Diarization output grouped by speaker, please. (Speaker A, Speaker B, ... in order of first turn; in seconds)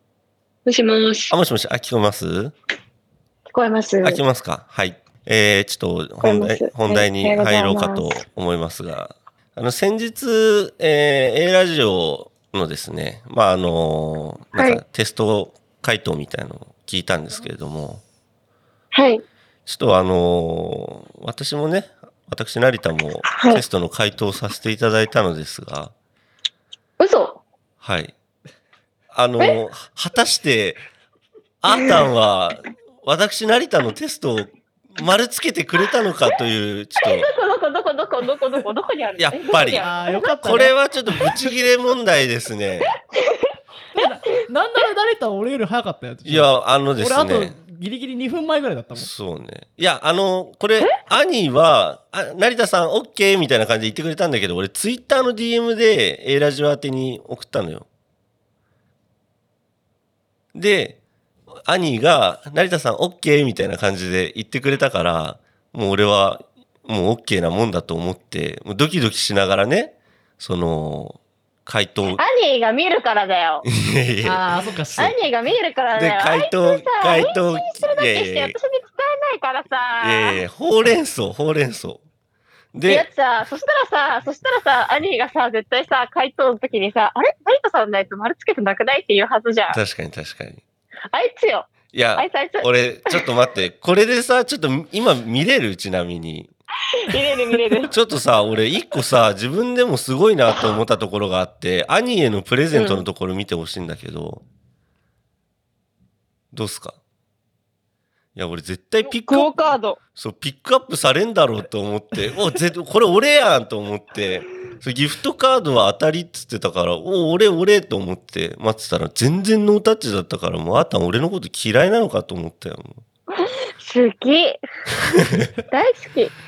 Speaker A: 0.7-1.3, 3.5-4.2, 6.2-8.2, 14.6-14.8, 18.9-19.2, 23.3-23.6, 27.0-27.4, 31.7-32.1, 37.0-40.3, 43.2-44.1, 72.1-73.7, 75.0-80.4, 82.9-89.8, 91.1-93.2, 97.0-97.9, 102.7-103.0, 109.0-110.0, 123.4-124.6, 125.7-126.3
Speaker B: 1.3-2.5, 4.0-18.0, 19.7-25.9, 27.8-28.1, 29.1-30.8, 31.6-37.3, 39.2-42.9, 46.2-47.6, 48.9-57.9, 60.5-61.0, 61.7-72.2, 73.7-74.5, 75.9-78.6, 80.0-82.0, 82.7-83.1, 89.7-90.6, 91.9-96.5, 97.9-104.4, 106.5-107.0, 108.4-109.6, 110.2-123.0
Speaker C: 39.8-40.8, 44.0-49.1, 74.2-75.2